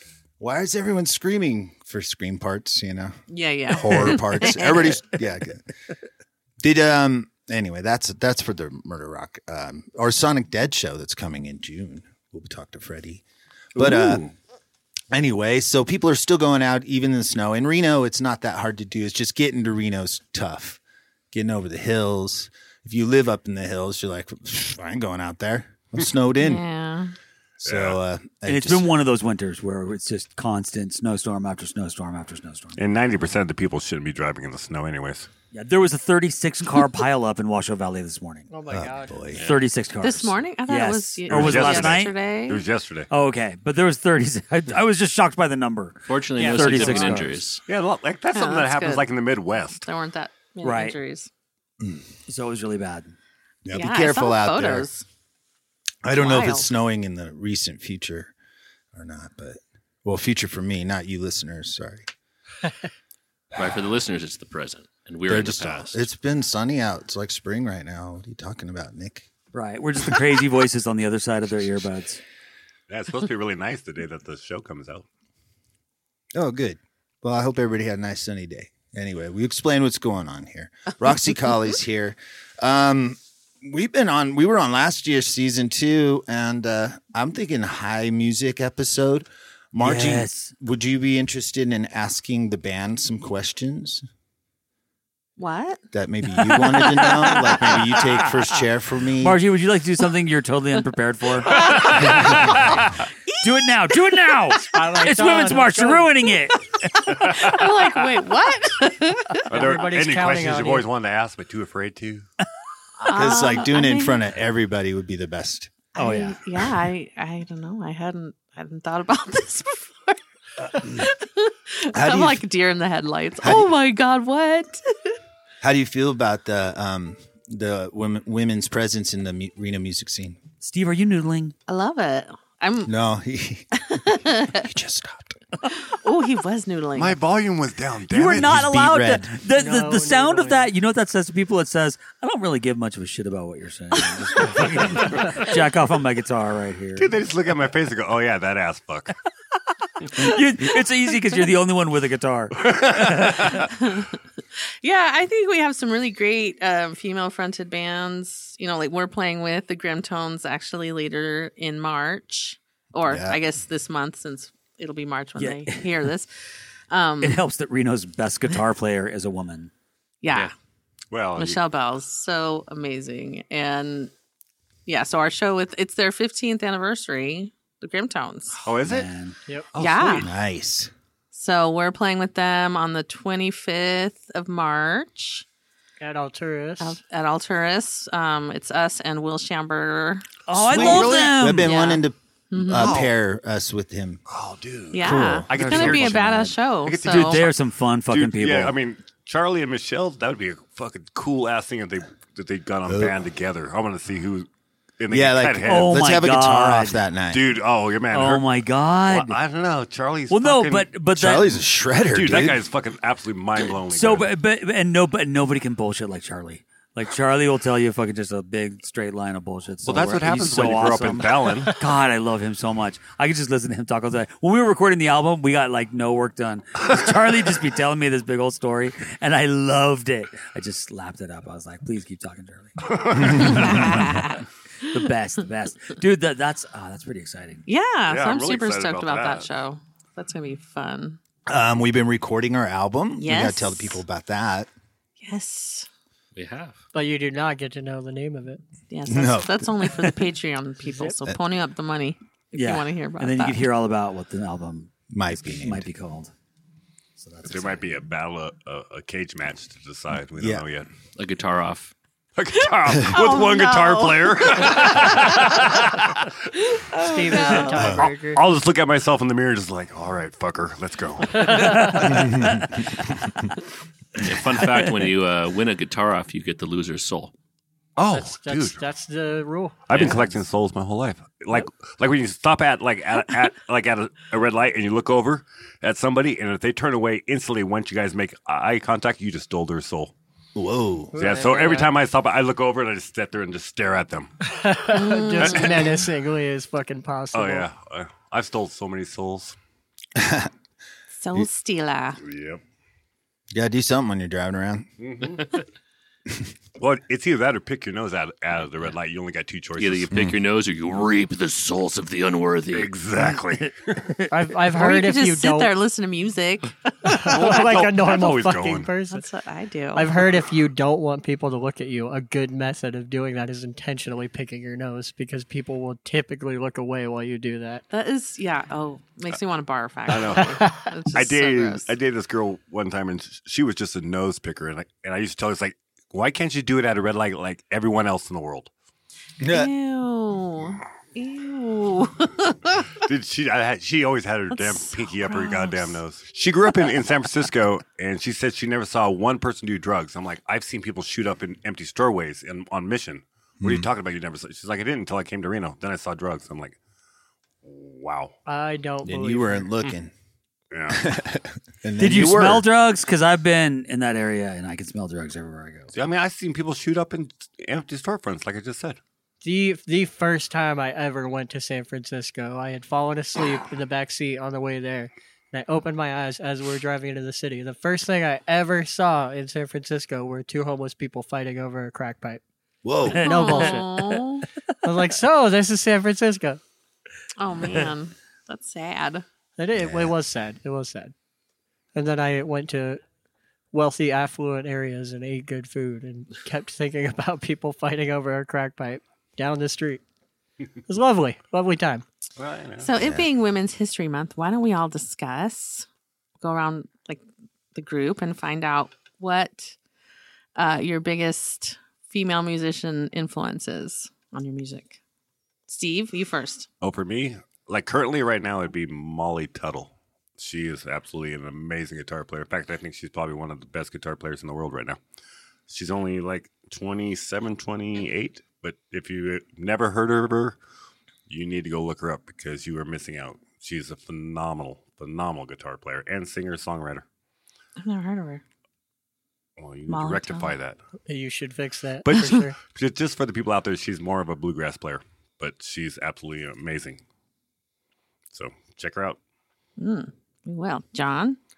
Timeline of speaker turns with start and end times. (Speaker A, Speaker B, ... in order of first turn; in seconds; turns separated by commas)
Speaker A: 0.4-3.2, Speaker B: 3.3-5.0, Speaker A: 3.7-5.6, Speaker A: 6.6-13.2, Speaker A: 13.8-14.3, Speaker C: 13.9-14.2, Speaker A: 15.1-20.8, Speaker A: 21.3-26.6, Speaker B: 26.4-27.1, Speaker A: 27.6-28.9, Speaker C: 27.7-28.0, Speaker D: 28.4-32.8, Speaker C: 32.8-35.3, Speaker D: 35.5-38.5, Speaker E: 38.5-39.3, Speaker A: 38.7-39.4, Speaker F: 39.4-39.6, Speaker D: 39.4-42.1, Speaker B: 40.0-42.6, Speaker C: 41.3-43.1, Speaker D: 43.1-47.4, Speaker F: 46.1-47.6, Speaker C: 47.7-49.9, Speaker B: 48.3-49.1, Speaker B: 49.7-51.3, Speaker D: 50.6-51.0, Speaker D: 52.3-53.1, Speaker A: 53.6-54.9, Speaker B: 53.7-55.0, Speaker A: 56.0-58.3, Speaker B: 56.1-56.7, Speaker A: 58.9-62.1, Speaker F: 63.6-66.0, Speaker A: 65.3-69.3, Speaker D: 69.5-72.2, Speaker C: 72.9-75.1, Speaker A: 76.3-94.0, Speaker D: 89.8-90.5, Speaker B: 95.4-95.8, Speaker A: 95.9-99.4, Speaker B: 96.5-98.2, Speaker D: 99.2-102.7, Speaker B: 101.5-102.5, Speaker D: 103.4-107.0, Speaker E: 104.6-106.2, Speaker B: 107.1-109.4, Speaker C: 107.3-107.7, Speaker E: 109.5-110.9, Speaker C: 109.5-112.3, Speaker B: 113.0-114.2, Speaker A: 113.1-115.7, Speaker B: 116.0-124.8, Speaker D: 116.0-116.4, Speaker A: 120.8-121.1, Speaker A: 121.9-122.4, Speaker A: 123.4-123.7, Speaker A: 125.6-130.4, Speaker D: 130.6-131.5, Speaker B: 131.7-132.9, Speaker A: 132.8-133.8, Speaker B: 133.8-134.6, Speaker A: 134.5-135.4, Speaker B: 135.7-137.2, Speaker C: 136.9-138.6, Speaker D: 138.1-147.1, Speaker A: 138.3-139.4, Speaker E: 139.5-140.7, Speaker C: 147.0-149.1, Speaker D: 150.1-153.6, Speaker C: 152.6-153.7, Speaker B: 153.7-154.2, Speaker B: 154.8-166.3, Speaker A: 163.1-163.4, Speaker D: 165.4-165.9, Speaker B: 166.9-167.4, Speaker D: 167.2-169.7, Speaker B: 170.2-170.5, Speaker C: 171.1-171.6, Speaker B: 171.4-174.1, Speaker B: 174.9-178.5, Speaker C: 178.6-179.1, Speaker D: 178.8-179.3, Speaker C: 179.7-180.3, Speaker B: 179.8-180.3, Speaker A: 180.2-180.9, Speaker B: 181.3-185.4, Speaker E: 186.0-187.0, Speaker B: 186.8-190.2, Speaker D: 190.5-191.8, Speaker C: 190.6-191.3, Speaker A: 190.6-194.2, Speaker B: 191.6-193.0, Speaker C: 192.7-193.1, Speaker C: 194.3-197.6, Speaker B: 194.9-197.4, Speaker A: 195.0-195.5, Speaker D: 195.5-198.8, Speaker C: 198.1-204.5, Speaker A: 202.9-203.2, Speaker C: 205.0-205.9, Speaker A: 205.1-207.4, Speaker D: 205.6-207.0, Speaker C: 207.3-208.4, Speaker D: 208.1-209.4, Speaker C: 209.1-210.9, Speaker D: 210.3-211.5, Speaker A: 211.2-212.6, Speaker C: 212.1-214.3, Speaker D: 213.9-237.6, Speaker C: 219.8-221.7, Speaker C: 232.9-233.9, Speaker A: 233.4-233.8, Speaker B: 233.5-234.4, Speaker B: 237.7-241.2, Speaker C: 238.1-239.5, Speaker A: 241.5-244.7, Speaker B: 243.2-244.0, Speaker B: 245.2-245.9, Speaker F: 246.4-246.8, Speaker E: 246.9-248.6, Speaker B: 248.9-253.7, Speaker A: 249.1-249.7, Speaker E: 250.9-251.2, Speaker D: 252.5-256.3, Speaker A: 255.1-255.9, Speaker D: 257.2-257.9, Speaker C: 257.5-260.9, Speaker A: 260.4-260.6, Speaker F: 261.2-261.9, Speaker C: 262.4-266.3, Speaker B: 262.6-265.5, Speaker E: 266.9-268.4, Speaker B: 267.1-267.7, Speaker C: 267.3-272.9, Speaker A: 267.8-268.1, Speaker D: 271.7-272.6, Speaker A: 272.1-272.7, Speaker F: 274.2-277.3, Speaker C: 278.0-278.8, Speaker E: 278.1-280.1, Speaker C: 279.9-290.1, Speaker F: 279.9-280.3, Speaker A: 290.6-291.2, Speaker E: 291.1-291.9, Speaker C: 291.2-294.3, Speaker E: 294.5-297.7, Speaker B: 294.9-295.8, Speaker C: 295.4-296.1, Speaker C: 297.3-299.6, Speaker A: 300.2-300.5, Speaker B: 301.1-302.2, Speaker C: 302.2-302.6, Speaker A: 303.5-304.9, Speaker C: 305.0-305.6, Speaker C: 306.8-310.2, Speaker F: 309.8-312.9, Speaker C: 312.7-314.0, Speaker D: 313.2-314.3, Speaker E: 314.3-315.7, Speaker B: 314.8-316.9, Speaker E: 317.1-319.3, Speaker C: 317.1-318.9, Speaker B: 319.1-320.2, Speaker E: 319.9-327.8, Speaker B: 327.9-331.9, Speaker C: 330.1-338.7, Speaker E: 330.4-330.8, Speaker A: 339.4-339.7, Speaker B: 339.5-342.9, Speaker C: 343.0-356.8, Speaker B: 344.5-346.0, Speaker A: 353.6-353.9, Speaker C: 357.6-358.4, Speaker E: 358.5-359.7, Speaker A: 359.0-360.1, Speaker C: 360.7-361.1, Speaker A: 360.9-362.6, Speaker D: 362.0-365.9, Speaker C: 365.9-369.0, Speaker E: 369.4-382.4, Speaker A: 382.8-383.2, Speaker D: 383.1-384.2, Speaker E: 383.2-383.9, Speaker B: 383.2-384.5, Speaker E: 384.8-386.6, Speaker B: 387.4-389.2, Speaker E: 389.6-391.1, Speaker A: 389.8-390.1, Speaker E: 391.9-393.0, Speaker E: 393.7-400.0, Speaker E: 400.9-402.1, Speaker C: 402.4-402.9, Speaker B: 402.8-405.9, Speaker A: 403.0-403.3, Speaker B: 406.4-407.2, Speaker B: 407.8-409.8, Speaker B: 410.6-415.0, Speaker B: 415.7-416.7, Speaker C: 416.8-425.0, Speaker C: 425.7-430.6, Speaker C: 431.3-437.1, Speaker B: 437.8-438.4, Speaker C: 439.6-440.8, Speaker B: 439.9-440.6, Speaker E: 441.1-442.6, Speaker C: 442.0-447.0, Speaker C: 448.3-449.2, Speaker B: 449.8-451.4